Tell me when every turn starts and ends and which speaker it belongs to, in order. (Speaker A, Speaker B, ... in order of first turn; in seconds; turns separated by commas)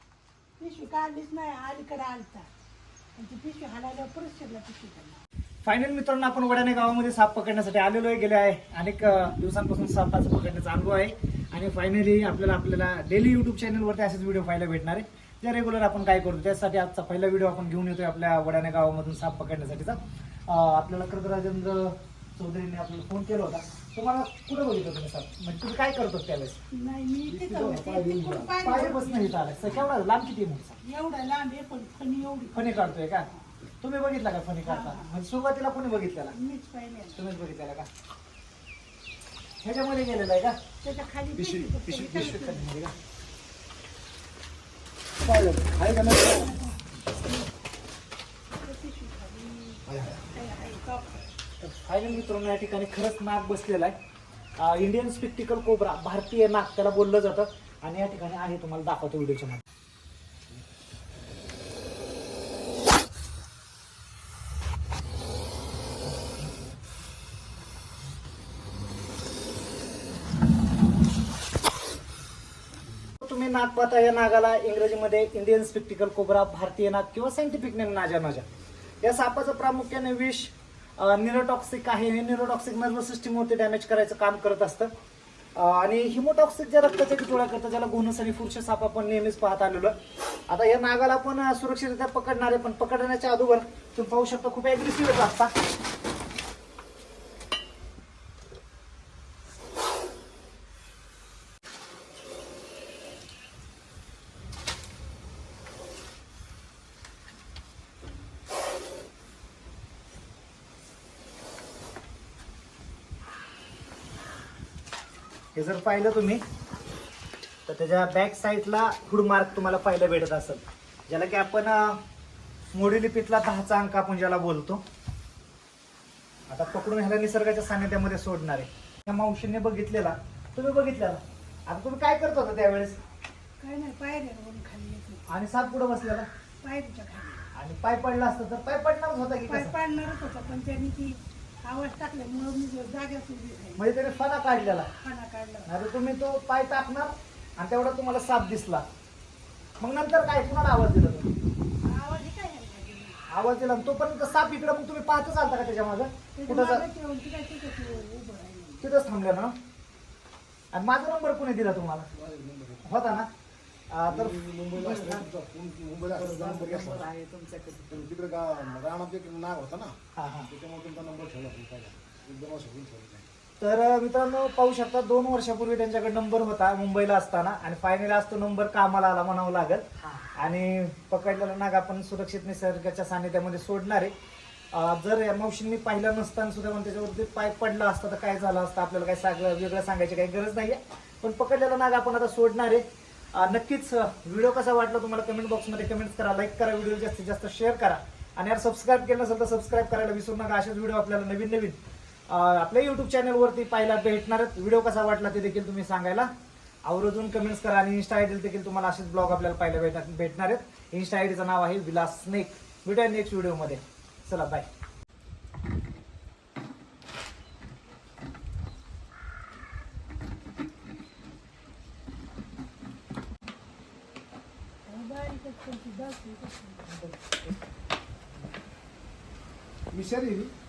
Speaker A: 0.6-2.5, Speaker A: 3.1-5.2, Speaker B: 5.6-26.6, Speaker A: 26.7-29.7, Speaker C: 27.3-28.6, Speaker B: 28.6-30.8, Speaker A: 30.8-33.4, Speaker B: 32.5-33.3, Speaker B: 33.8-36.3, Speaker A: 34.6-35.1, Speaker A: 36.3-37.2, Speaker B: 37.1-37.9, Speaker B: 39.6-40.6, Speaker A: 40.8-42.8, Speaker C: 41.4-42.1, Speaker B: 41.9-43.0, Speaker C: 45.2-46.5, Speaker A: 46.4-46.7, Speaker A: 48.6-51.3, Speaker C: 49.9-50.1, Speaker B: 51.6-53.9, Speaker B: 54.6-59.6, Speaker B: 73.2-78.5, Speaker B: 79.0-84.9, Speaker B: 85.5-89.9, Speaker B: 90.5-95.5, Speaker B: 115.5-116.4, Speaker B: 117.7-122.0, Speaker B: 122.7-124.8, Speaker B: 126.5-133.0, Speaker A: 133.6-135.3, Speaker B: 135.3-136.3, Speaker A: 136.6-137.4, Speaker B: 137.5-139.7, Speaker A: 139.5-143.8, Speaker B: 143.8-144.9, Speaker A: 145.0-145.7, Speaker B: 145.7-148.8, Speaker B: 149.8-151.3, Speaker A: 151.8-153.2, Speaker B: 153.3-156.8, Speaker A: 156.3-158.8, Speaker B: 158.8-159.5, Speaker B: 160.7-162.1, Speaker C: 162.1-162.9, Speaker B: 162.8-163.3, Speaker B: 163.9-165.2, Speaker C: 164.1-167.1, Speaker B: 166.2-167.7, Speaker C: 167.8-170.0, Speaker B: 170.2-170.5, Speaker C: 170.5-173.2, Speaker B: 173.6-184.1, Speaker B: 184.7-206.3, Speaker B: 206.8-214.7, Speaker A: 224.8-226.9, Speaker B: 226.9-227.5, Speaker C: 229.9-230.5